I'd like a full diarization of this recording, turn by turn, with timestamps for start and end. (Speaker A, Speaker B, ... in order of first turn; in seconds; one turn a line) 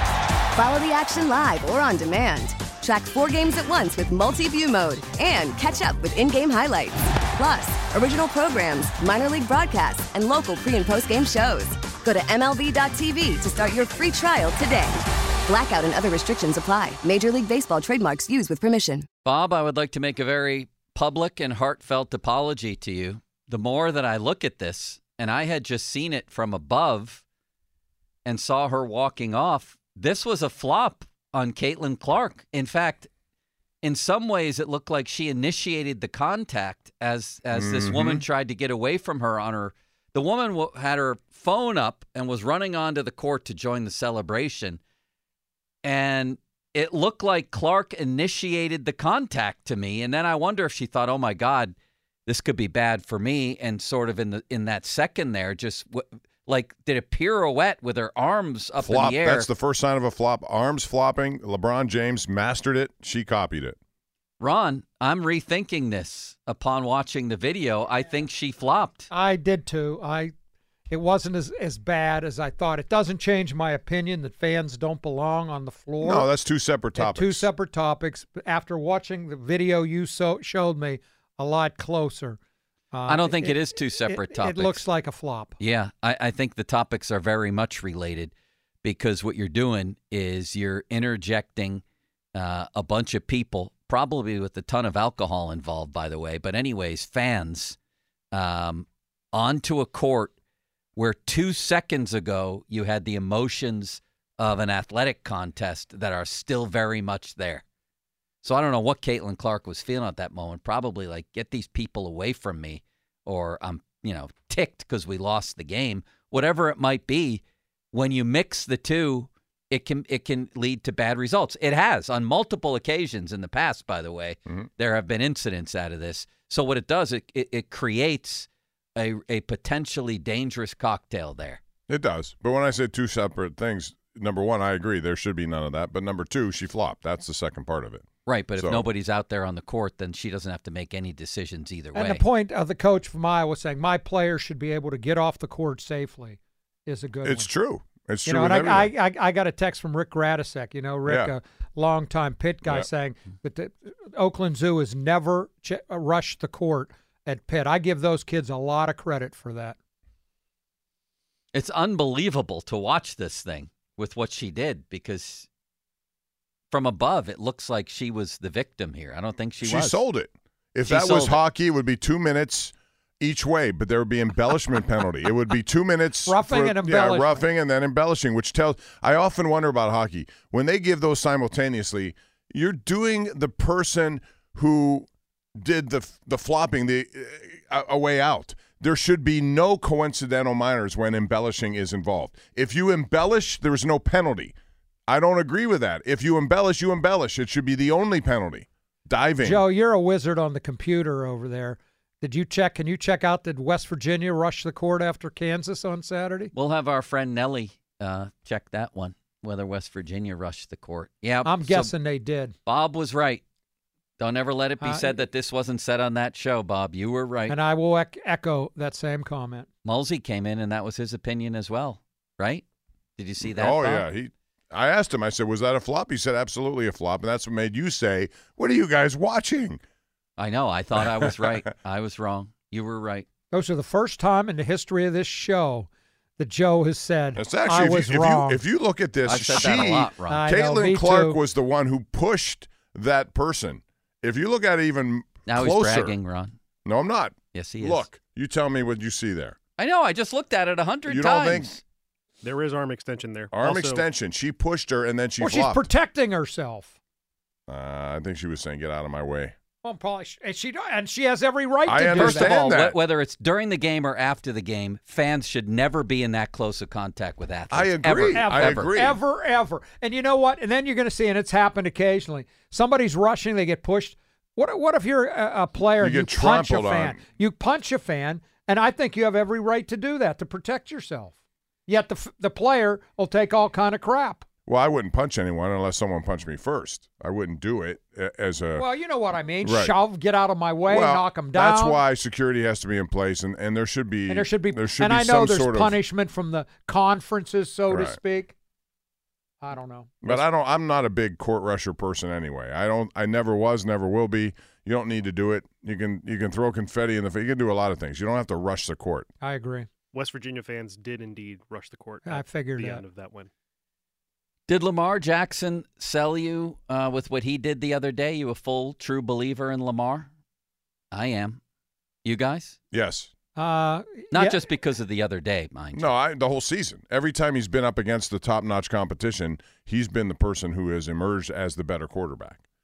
Speaker A: 0.6-19.1
Speaker B: 19.2-27.2
Speaker B: 28.3-33.1
Speaker B: 33.8-44.8
Speaker C: 37.5-38.2
Speaker B: 45.8-51.8
Speaker B: 52.3-59.5
Speaker C: 58.8-63.8
Speaker B: 64.4-69.1
Speaker D: 69.1-70.3
Speaker D: 70.9-76.3
Speaker C: 76.0-77.5
Speaker D: 77.0-82.4
Speaker D: 82.9-85.6
Speaker B: 83.1-84.8
Speaker B: 85.6-88.3
Speaker B: 88.8-91.8
Speaker B: 92.3-97.8
Speaker B: 98.3-100.3
Speaker B: 101.0-107.6
Speaker B: 108.4-117.4
Speaker B: 117.9-131.6
Speaker C: 131.9-138.9
Speaker B: 138.3-142.2
Speaker D: 141.9-147.5
Speaker C: 147.2-148.9
Speaker D: 148.3-159.8
Speaker C: 151.1-151.3
Speaker B: 161.5-165.5
Speaker B: 166.7-170.0
Speaker C: 169.6-185.1
Speaker B: 170.9-171.4
Speaker D: 176.3-177.4
Speaker C: 185.6-194.6
Speaker C: 195.1-199.7
Speaker D: 199.4-206.5
Speaker B: 206.5-211.9
Speaker D: 211.4-212.6
Speaker B: 212.7-213.4
Speaker B: 214.2-217.6
Speaker D: 214.8-215.2
Speaker D: 217.5-219.7
Speaker B: 219.8-222.7
Speaker B: 223.2-224.1
Speaker C: 223.4-229.8
Speaker B: 230.4-233.3
Speaker D: 233.5-238.6
Speaker C: 237.4-246.2
Speaker B: 239.2-240.4
Speaker D: 240.3-241.4
Speaker B: 245.5-246.6
Speaker C: 246.8-249.6
Speaker B: 247.5-248.1
Speaker B: 249.8-251.8
Speaker C: 251.1-251.8
Speaker E: 252.4-254.1
Speaker C: 253.5-255.9
Speaker D: 255.4-257.0
Speaker C: 257.7-259.5
Speaker D: 259.8-262.6
Speaker C: 261.9-263.0
Speaker B: 262.2-269.0
Speaker C: 267.7-269.2
Speaker D: 268.3-281.3
Speaker C: 276.0-277.2
Speaker D: 281.9-284.4
Speaker C: 284.7-288.9
Speaker D: 288.8-292.0
Speaker C: 289.6-290.0
Speaker C: 290.9-296.0
Speaker D: 294.3-298.6
Speaker C: 297.9-298.2
Speaker D: 299.6-300.4
Speaker C: 300.2-309.3
Speaker D: 309.4-309.9
Speaker E: 310.1-313.5
Speaker D: 312.3-313.0
Speaker B: 314.7-320.3
Speaker B: 321.1-321.6
Speaker B: 322.2-322.8
Speaker C: 322.9-323.3
Speaker D: 323.6-324.7
Speaker B: 324.3-326.1
Speaker C: 325.9-332.6